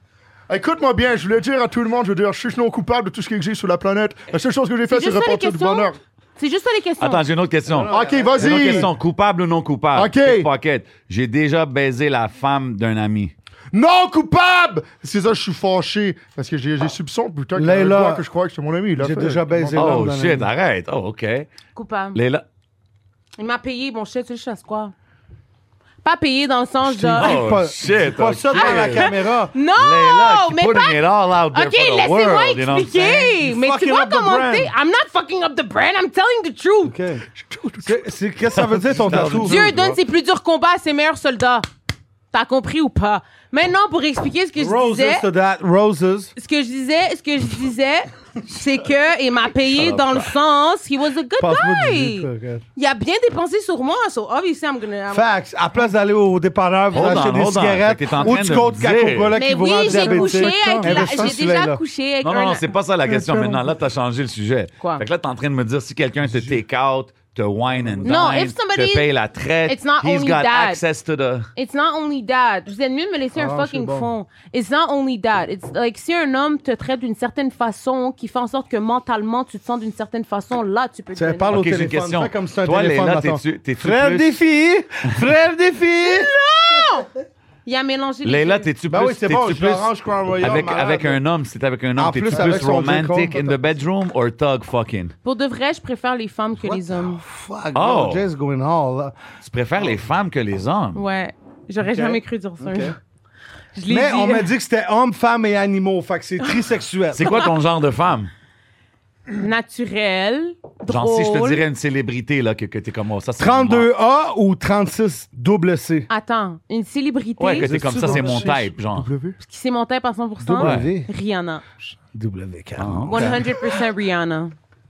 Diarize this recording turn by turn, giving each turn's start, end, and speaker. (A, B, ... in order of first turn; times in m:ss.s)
0:00.5-0:06.0 A
0:04.9-0:07.2 B
0:07.0-0:13.3 C
0:07.7-0:08.9 D
0:07.9-0:08.9 A
0:09.9-0:10.5 A
0:13.7-0:20.0 A
0:17.5-0:18.2 D
0:19.0-0:20.5 D
0:19.7-0:21.5 C
0:21.7-0:22.2 B
0:22.1-0:22.4 C
0:23.4-0:24.9 B
0:26.0-0:27.4 B
0:26.8-0:29.5 D
0:27.2-0:29.1 C
0:28.5-0:36.9 B
0:29.8-0:33.3 C
0:33.3-0:34.7 D
0:36.8-0:37.2 D
0:37.4-0:38.0 A
0:37.8-0:39.7 D
0:38.5-0:40.0 C
0:39.4-0:41.6 B
0:42.3-0:45.3 B
0:44.6-0:46.3 D
0:46.4-0:55.3 B
0:49.7-0:50.3 C
0:51.4-0:52.6 D
0:55.1-1:01.8 D
0:56.9-0:57.2 B
0:56.9-0:59.3 C
0:58.3-0:58.6 A
0:59.4-1:02.7 B
0:59.9-1:01.3 A
1:02.2-1:11.5 C
1:03.1-1:03.6 A
1:04.8-1:05.0 B
1:06.3-1:06.6 D
1:07.7-1:08.3 D
1:08.0-1:09.1 B
1:09.6-1:10.8 B
1:11.6-1:21.6 B
1:13.4-1:14.1 D
1:21.1-1:27.0 D
1:21.5-1:24.3 C
1:26.0-1:27.1 B
1:27.6-1:28.7 B
1:28.2-1:35.1 C
1:28.9-1:31.2 D
1:32.0-1:33.8 D
1:35.2-1:37.2 B
1:36.6-1:39.2 D
1:37.7-1:38.2 C
1:39.4-1:41.0 C
1:40.9-1:43.0 B
1:41.8-1:42.9 D
1:43.7-1:44.5 B
1:43.9-1:47.4 D
1:47.1-1:48.3 C
1:49.4-1:51.6 B
1:50.9-1:53.9 C
1:53.4-1:56.1 D
1:56.1-1:57.7 B
1:57.4-1:59.1 C
1:57.6-1:58.6 D
1:57.7-1:59.4 A
1:59.4-2:01.6 B
2:00.4-2:01.1 D
2:00.6-2:00.9 C
2:02.1-2:03.6 D
2:02.8-2:03.4 C
2:03.1-2:04.5 B